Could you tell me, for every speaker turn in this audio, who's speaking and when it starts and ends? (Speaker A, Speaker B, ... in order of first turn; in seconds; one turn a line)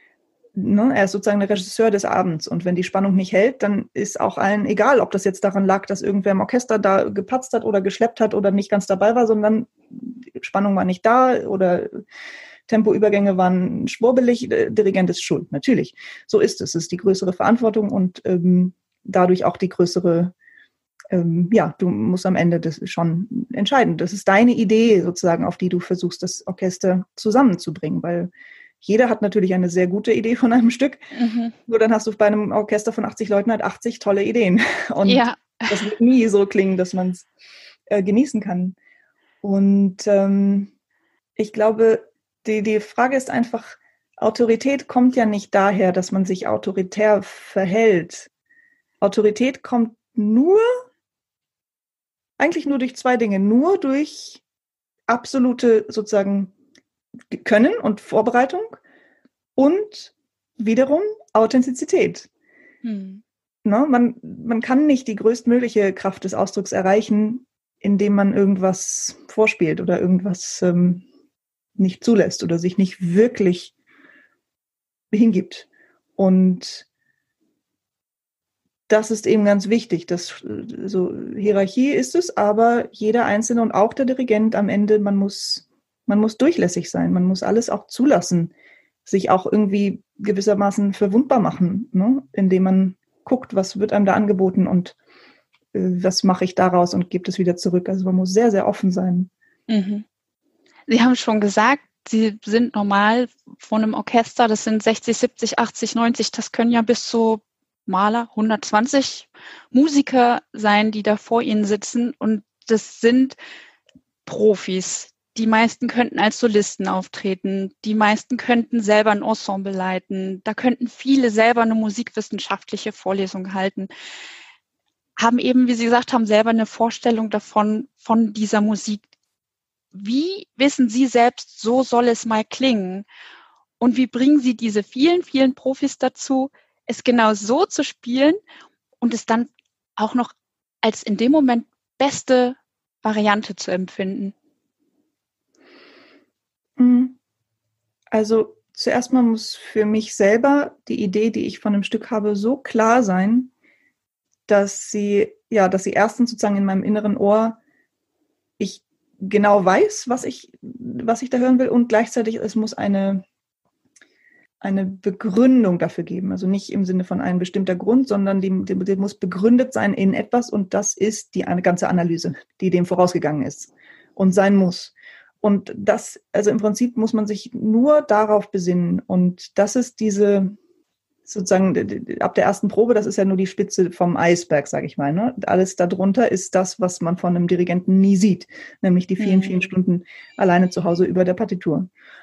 Speaker A: 0.6-12.0
Speaker A: 12.7-20.3
Speaker A: 21.1-28.3
Speaker A: 28.8-31.0
Speaker B: 31.1-31.6
Speaker A: 31.7-37.3
Speaker B: 35.0-35.8
Speaker A: 37.9-38.8
Speaker A: 39.4-40.7
Speaker A: 41.4-48.3
Speaker A: 49.0-50.6
Speaker A: 52.4-54.4
Speaker A: 55.1-56.5
Speaker A: 57.3-58.8
Speaker A: 59.5-62.3
Speaker B: 62.8-63.2
Speaker A: 63.6-71.0
Speaker A: 71.8-73.7
Speaker A: 75.1-76.8
Speaker A: 78.9-88.5
Speaker A: 89.0-95.0
Speaker A: 95.7-99.3
Speaker B: 99.7-100.0
Speaker B: 100.9-113.3
Speaker B: 114.2-123.9
Speaker B: 125.2-129.0
Speaker B: 129.9-133.0
Speaker B: 133.8-138.4
Speaker B: 139.0-140.3
Speaker B: 140.8-144.3
Speaker A: 146.8-147.2
Speaker A: 148.1-153.5
Speaker A: 154.5-157.6
Speaker A: 158.6-163.2
Speaker A: 164.6-180.6
Speaker A: 181.2-191.9
Speaker B: 189.2-189.6